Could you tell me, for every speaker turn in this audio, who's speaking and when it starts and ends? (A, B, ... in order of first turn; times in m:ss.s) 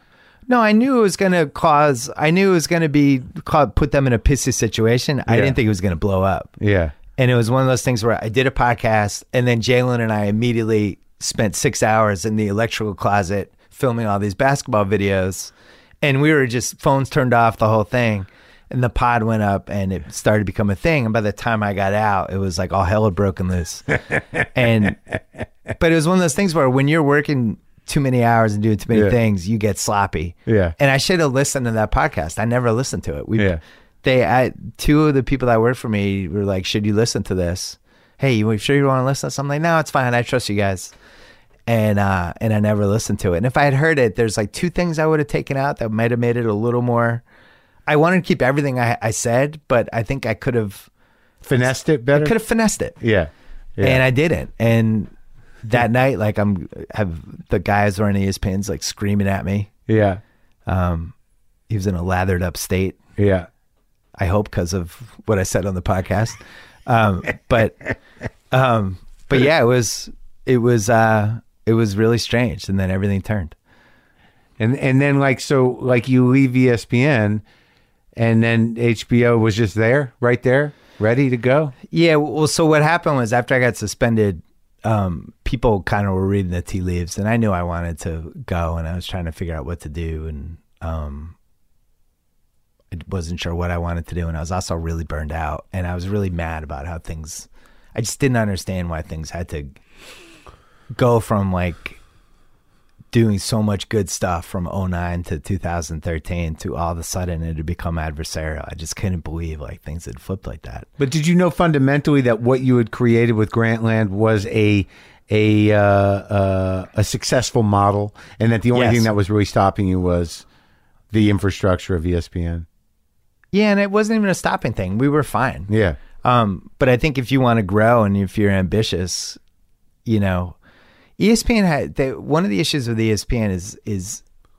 0:00.5-0:06.5 A
0:05.3-0:05.6 B
0:06.6-0:06.9 B
0:07.2-0:25.0 A
0:25.7-0:40.9 A
0:30.5-0:30.8 B
0:41.7-0:47.2 A
0:47.9-0:50.9 A
0:51.4-0:52.3 B
0:52.1-0:53.0 A
0:53.0-0:54.0 B
0:53.8-0:55.1 A
0:55.6-0:59.7 A
0:59.9-1:00.2 B
1:00.7-1:01.1 A
1:01.7-1:03.0 A
1:03.2-1:03.5 B
1:04.2-1:07.9 A
1:08.5-1:13.6 A
1:14.6-1:17.4 B
1:18.2-1:21.7 B
1:21.9-1:31.4 A
1:32.9-1:39.8 A
1:40.9-1:42.0 A
1:43.1-1:50.9 A
1:51.0-2:00.4 B
1:58.7-1:59.1 A
2:01.1-2:02.7 B
2:03.5-2:05.7 A
2:05.7-2:06.0 B
2:06.2-2:09.4 A
2:10.1-2:10.6 A
2:11.2-2:14.2 A